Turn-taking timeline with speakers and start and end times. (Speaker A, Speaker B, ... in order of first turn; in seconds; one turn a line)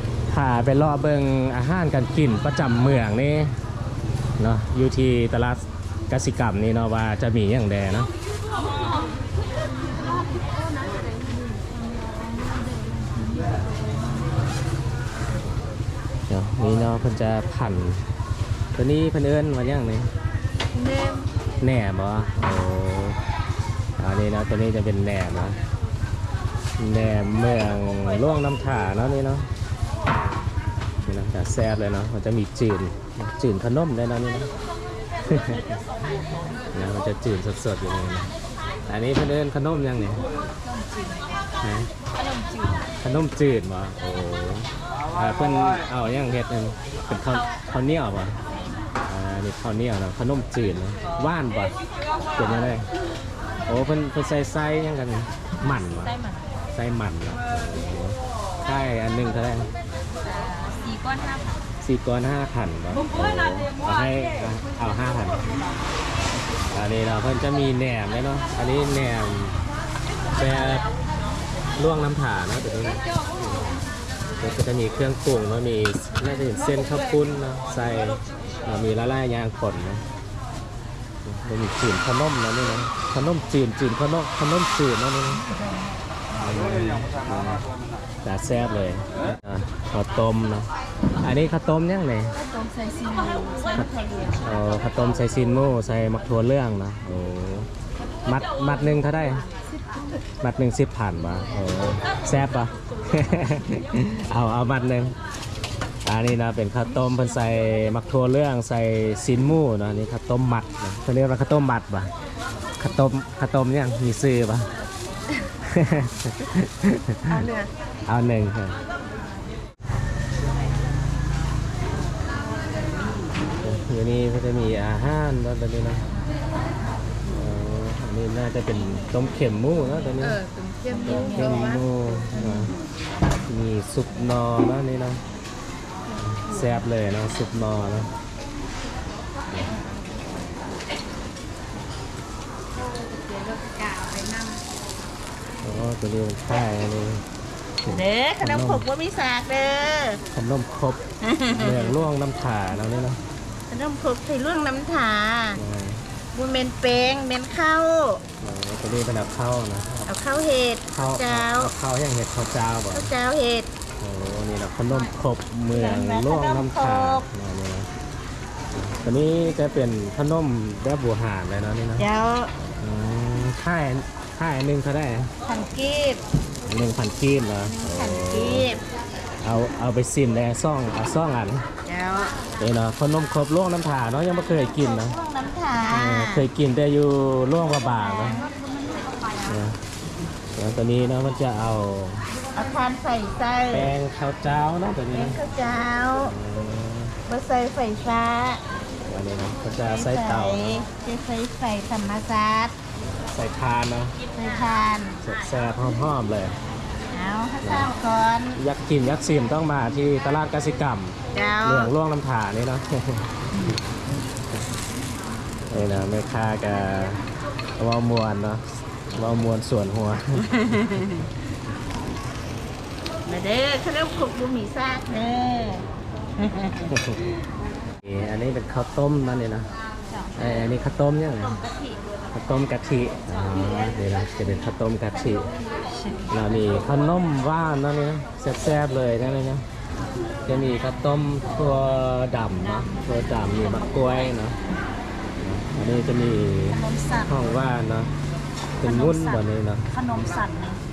Speaker A: 0.3-3.5
Speaker A: 4.4-8.1
Speaker B: 9.9-14.1
Speaker A: 16.3-18.0
Speaker A: 18.8-20.1
Speaker B: 20.7-21.3
Speaker A: 21.6-23.2
Speaker A: 24.0-25.6
Speaker A: 26.8-29.5
Speaker A: 31.1-34.5
Speaker A: 35.3-35.7
Speaker A: 36.7-38.3
Speaker A: 38.9-40.2
Speaker B: 40.6-41.2
Speaker A: 41.6-41.9
Speaker B: 42.2-42.7
Speaker A: 43.0-48.4
Speaker A: 49.0-51.7
Speaker A: 52.4-52.9
Speaker A: 53.7-56.2
Speaker A: 56.7-59.7
Speaker B: 60.6-61.0
Speaker A: 61.8-65.5
Speaker A: 66.7-69.6
Speaker A: 70.3-70.8
Speaker A: 71.8-73.7
Speaker A: 74.4-80.0
Speaker A: 81.2-85.5
Speaker A: 86.4-87.6
Speaker A: 88.2-90.7
Speaker A: 91.2-92.4
Speaker B: 92.4-94.4
Speaker A: 93.8-97.7
Speaker A: 98.2-99.5
Speaker A: 100.4-105.2
Speaker A: 106.0-112.1
Speaker A: 112.8-114.7
Speaker A: 115.7-117.5
Speaker C: 117.4-117.7
Speaker A: 118.1-118.8
Speaker A: 123.6-126.1
Speaker A: 127.3-130.4
Speaker B: 130.3-131.8
Speaker C: 130.9-131.8
Speaker A: 131.0-132.7
Speaker A: 133.5-135.2
Speaker A: 136.2-138.1
Speaker C: 143.3-144.4
Speaker A: 145.6-147.2
Speaker A: 147.8-148.8
Speaker C: 147.9-150.2
Speaker A: 150.3-151.0
Speaker C: 151.2-152.0
Speaker A: 151.5-153.2
Speaker C: 153.7-155.6
Speaker A: 155.6-156.0
Speaker C: 156.3-158.2
Speaker A: 158.4-160.1
Speaker C: 160.1-161.7
Speaker A: 160.9-163.1
Speaker C: 162.9-163.7
Speaker A: 164.0-167.9
Speaker C: 165.7-167.3
Speaker A: 168.8-172.1
Speaker C: 172.0-172.5
Speaker A: 172.8-175.3
Speaker C: 175.4-176.2
Speaker A: 176.7-178.7
Speaker C: 177.6-178.8
Speaker A: 179.4-181.7
Speaker C: 181.9-182.4
Speaker A: 182.6-185.2
Speaker C: 184.8-186.5
Speaker A: 185.9-188.4
Speaker C: 187.9-188.5
Speaker B: 188.6-189.3
Speaker A: 189.4-189.8
Speaker A: 190.6-192.3
Speaker C: 192.5-193.9
Speaker A: 193.7-195.4
Speaker C: 195.1-196.3
Speaker A: 196.2-197.2
Speaker C: 197.3-198.6
Speaker A: 199.1-200.8
Speaker C: 199.8-202.8
Speaker A: 203.0-204.2
Speaker C: 204.3-205.2
Speaker A: 205.2-206.6
Speaker C: 207.1-208.6
Speaker A: 207.6-207.9
Speaker A: 208.6-213.2
Speaker C: 211.3-211.9
Speaker A: 215.7-217.2
Speaker A: 217.8-220.4
Speaker C: 220.4-221.3
Speaker C: 223.3-225.9
Speaker C: 226.4-226.9
Speaker A: 226.9-227.2
Speaker A: 228.0-229.7
Speaker A: 230.4-231.6
Speaker C: 231.6-232.0
Speaker A: 232.3-235.5
Speaker A: 236.3-239.7
Speaker A: 240.5-244.6
Speaker B: 243.8-244.2
Speaker A: 245.4-248.1
Speaker B: 246.8-247.2
Speaker A: 248.8-249.9
Speaker B: 248.8-249.4
Speaker B: 249.9-250.8